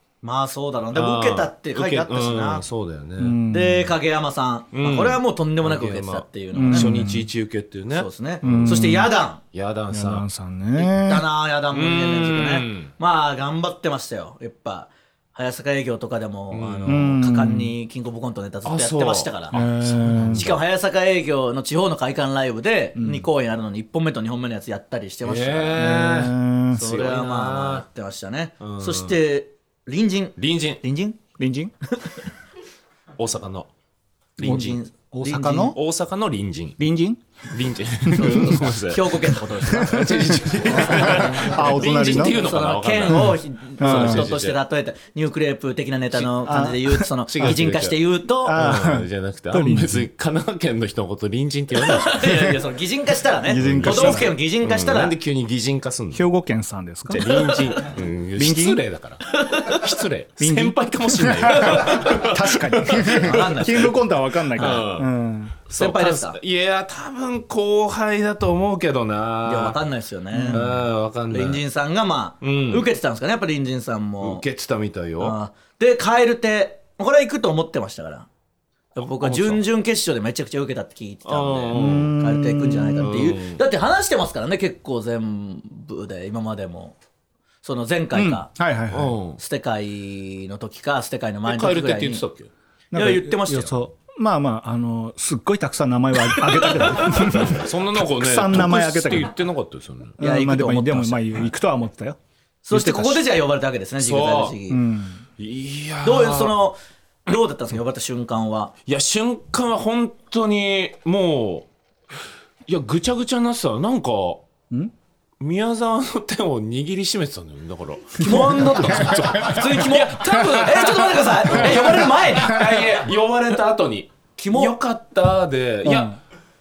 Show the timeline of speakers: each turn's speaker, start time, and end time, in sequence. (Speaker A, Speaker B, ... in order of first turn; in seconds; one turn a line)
Speaker A: 0.2-2.6
Speaker B: 0.9-3.4
Speaker C: 3.2-3.9
Speaker A: 3.5-7.0
Speaker B: 4.7-10.3
Speaker C: 6.5-7.3
Speaker A: 7.9-9.4
Speaker C: 8.4-9.1
Speaker C: 9.9-11.3
Speaker A: 10.8-19.6
Speaker B: 11.7-12.9
Speaker B: 16.5-17.1
Speaker C: 16.9-17.8
Speaker B: 18.6-20.6
Speaker C: 19.5-20.5
Speaker A: 20.3-25.8
Speaker C: 23.0-23.3
Speaker B: 25.2-27.9
Speaker C: 25.8-26.8
Speaker A: 26.8-31.2
Speaker B: 28.6-29.2
Speaker B: 30.4-30.8
Speaker C: 31.4-31.7
Speaker A: 31.9-32.2
Speaker B: 33.2-33.7
Speaker B: 34.4-34.8
Speaker A: 34.4-35.8
Speaker C: 34.4-35.8
Speaker B: 35.7-36.8
Speaker C: 36.8-37.2
Speaker B: 37.5-44.6
Speaker A: 38.1-48.6
Speaker C: 39.7-42.4
Speaker C: 43.1-44.3
Speaker C: 46.4-47.6
Speaker B: 47.3-48.0
Speaker C: 48.4-50.1
Speaker B: 48.5-52.3
Speaker A: 51.8-55.1
Speaker C: 53.5-54.4
Speaker B: 53.6-56.3
Speaker C: 56.1-57.3
Speaker B: 57.1-63.8
Speaker A: 57.2-57.6
Speaker C: 58.4-58.8
Speaker A: 59.3-59.8
Speaker C: 60.4-65.5
Speaker A: 61.7-62.0
Speaker A: 62.9-64.0
Speaker A: 64.6-64.8
Speaker B: 64.6-65.1
Speaker B: 65.7-69.8
Speaker A: 65.7-66.4
Speaker A: 69.5-70.8
Speaker C: 70.3-70.7
Speaker B: 70.5-71.6
Speaker A: 71.3-74.4
Speaker B: 72.4-72.9
Speaker B: 74.2-75.4
Speaker A: 75.2-78.3
Speaker A: 79.0-87.0
Speaker B: 79.0-79.6
Speaker B: 81.3-82.2
Speaker C: 81.7-83.2
Speaker B: 83.0-83.6
Speaker A: 87.6-88.5
Speaker C: 88.1-89.2
Speaker B: 88.9-89.4
Speaker A: 89.4-92.2
Speaker B: 91.5-92.5
Speaker C: 92.9-99.3
Speaker A: 92.9-93.7
Speaker A: 96.5-97.3
Speaker B: 97.0-100.2
Speaker A: 100.2-101.5
Speaker C: 100.2-102.2
Speaker A: 102.7-104.8
Speaker C: 102.7-103.2
Speaker B: 104.0-104.6
Speaker C: 104.7-105.2
Speaker B: 105.4-106.5
Speaker A: 106.0-108.7
Speaker B: 108.9-111.7
Speaker B: 112.7-114.5
Speaker B: 115.4-126.2
Speaker A: 118.2-122.9
Speaker C: 118.9-119.4
Speaker A: 124.4-124.8
Speaker C: 125.8-126.2